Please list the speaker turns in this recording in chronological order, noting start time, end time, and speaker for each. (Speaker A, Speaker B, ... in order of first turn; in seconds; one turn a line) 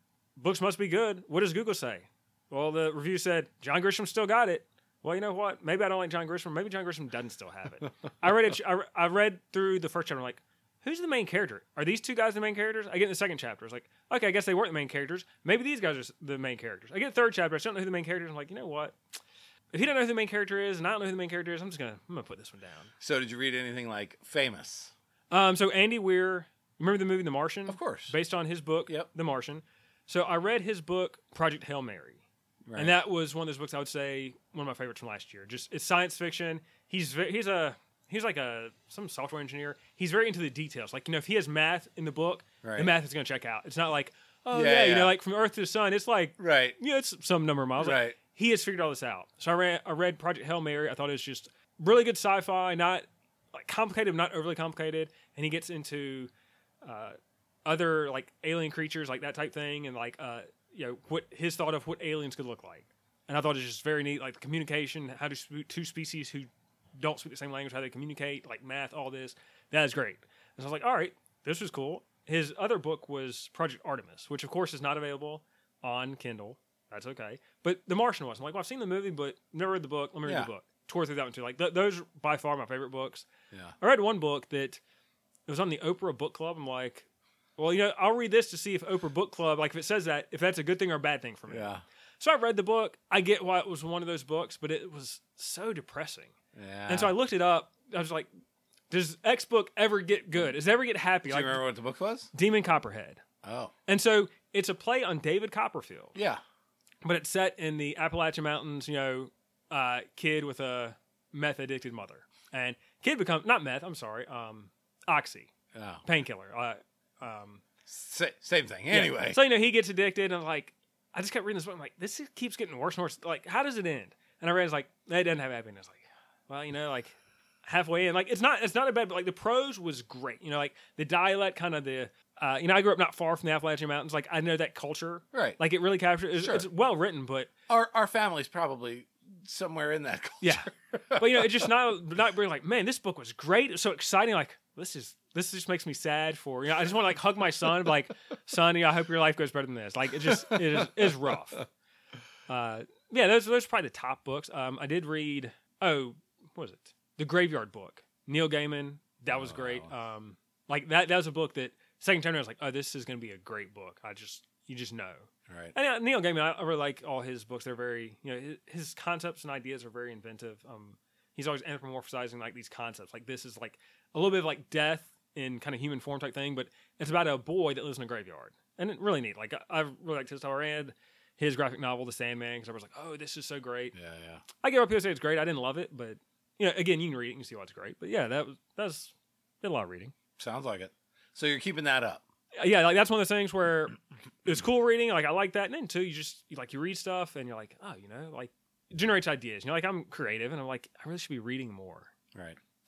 Speaker A: 0.4-19.0
Speaker A: 19.7-22.9
Speaker B: 23.0-24.9
Speaker A: 25.3-32.2
Speaker B: 27.7-28.1
Speaker B: 32.7-33.0
Speaker A: 32.8-56.3
Speaker B: 42.6-42.9
Speaker B: 44.5-45.2
Speaker B: 46.4-46.8
Speaker B: 47.8-48.2
Speaker A: 56.8-83.3
Speaker A: 83.8-84.8
Speaker A: 85.5-87.1
Speaker A: 87.6-96.3
Speaker B: 91.5-91.8
Speaker B: 96.5-97.1
Speaker A: 96.9-98.3
Speaker A: 98.9-101.6
Speaker B: 101.3-102.3
Speaker A: 102.3-103.2
Speaker B: 103.4-103.7
Speaker A: 103.9-106.2
Speaker B: 106.2-106.4
Speaker A: 107.0-115.5
Speaker B: 115.7-116.0
Speaker A: 116.0-117.6
Speaker B: 117.9-119.4
Speaker A: 118.9-137.5
Speaker B: 135.3-135.6
Speaker B: 136.4-136.7
Speaker B: 137.7-141.6
Speaker A: 140.4-151.6
Speaker B: 150.3-151.2
Speaker A: 152.5-183.9
Speaker B: 159.3-159.9
Speaker B: 165.5-165.8
Speaker B: 183.9-184.4
Speaker A: 184.6-190.1
Speaker B: 190.4-192.2
Speaker A: 192.6-202.1